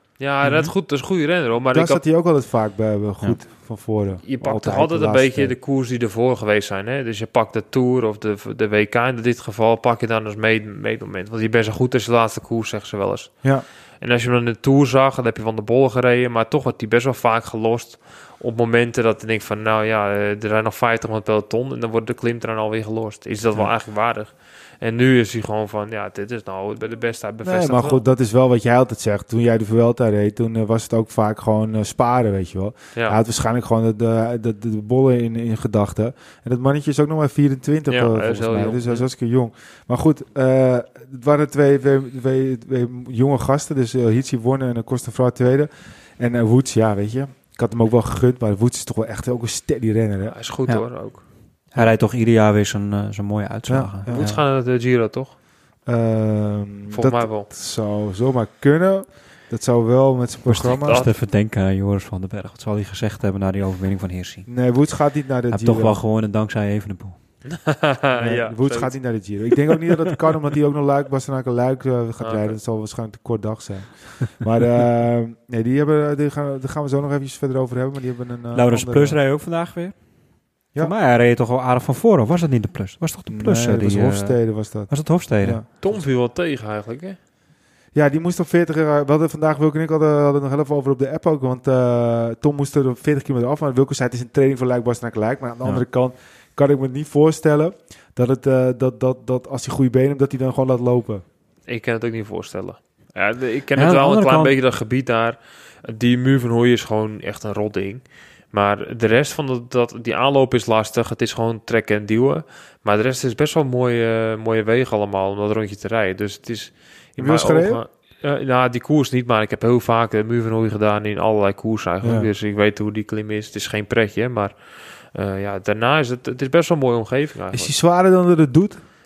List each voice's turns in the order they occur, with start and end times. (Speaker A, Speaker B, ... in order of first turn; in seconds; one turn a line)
Speaker A: 0.2-2.0
Speaker B: 0.4-0.7
Speaker C: 1.7-5.6
Speaker A: 4.2-28.1
Speaker C: 27.4-50.4
Speaker A: 37.9-39.1
Speaker A: 50.3-51.2
Speaker B: 51.7-54.4
Speaker C: 53.7-54.3
Speaker A: 54.1-55.3
Speaker C: 55.9-61.1
Speaker A: 56.9-57.5
Speaker A: 60.5-61.1
Speaker B: 60.8-64.5
Speaker C: 64.5-66.0
Speaker B: 65.5-67.2
Speaker A: 67.5-69.0
Speaker C: 68.2-79.2
Speaker A: 72.2-72.5
Speaker B: 78.5-80.0
Speaker B: 80.7-85.6
Speaker C: 83.3-86.0
Speaker A: 85.8-87.2
Speaker C: 87.9-101.2
Speaker A: 101.7-127.7
Speaker B: 103.8-104.5
Speaker C: 117.2-117.8
Speaker C: 122.0-122.3
Speaker C: 127.5-128.8